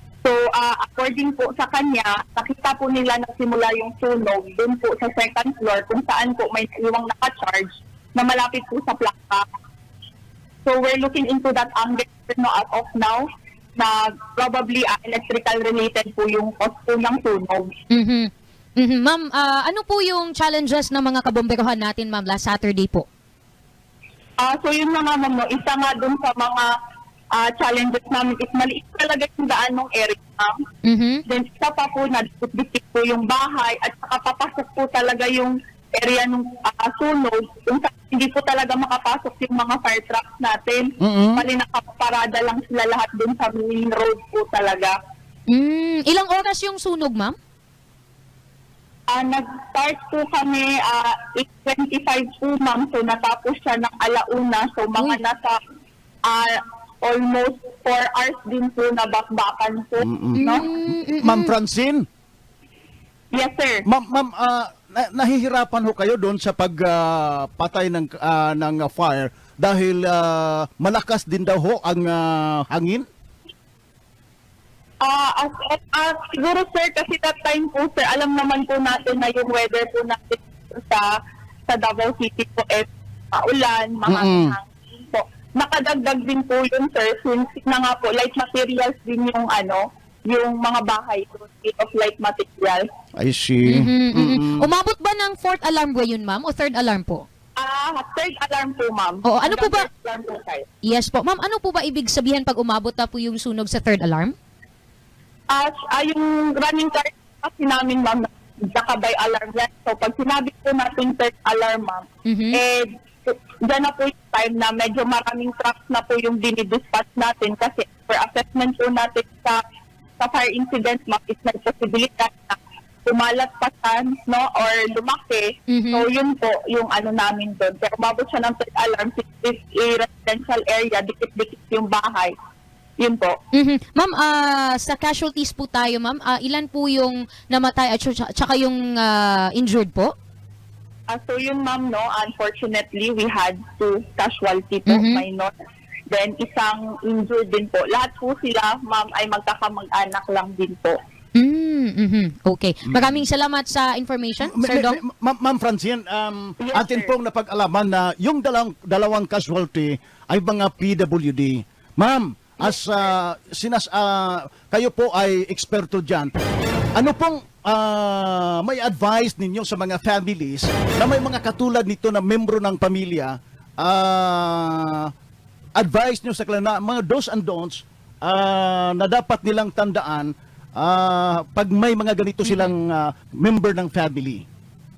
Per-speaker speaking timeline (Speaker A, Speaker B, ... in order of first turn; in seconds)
Speaker A: 0.2-9.4, 10.6-17.7, 24.4-26.7, 27.4-30.6, 31.3-44.9, 49.1-55.6, 57.0-60.7, 63.3-63.8, 75.0-81.1, 81.7-92.8, 97.6-100.7, 105.5-119.6, 120.2-132.3, 133.0-133.3, 141.1-145.5, 146.1-150.9, 156.6-157.1
Speaker B: 17.9-23.0, 30.9-31.2, 45.5-47.3, 60.4-61.5, 93.7-97.2, 99.2-99.9, 100.8-104.3, 112.2-112.6, 125.7-126.0, 133.6-140.1, 144.9-145.2, 151.3-155.0, 182.4-182.7
Speaker C: 41.0-41.4, 60.0-62.0, 63.9-73.0, 84.0-84.5, 93.2-94.7, 152.8-153.2, 154.4-166.3, 166.9-175.1, 175.8-184.4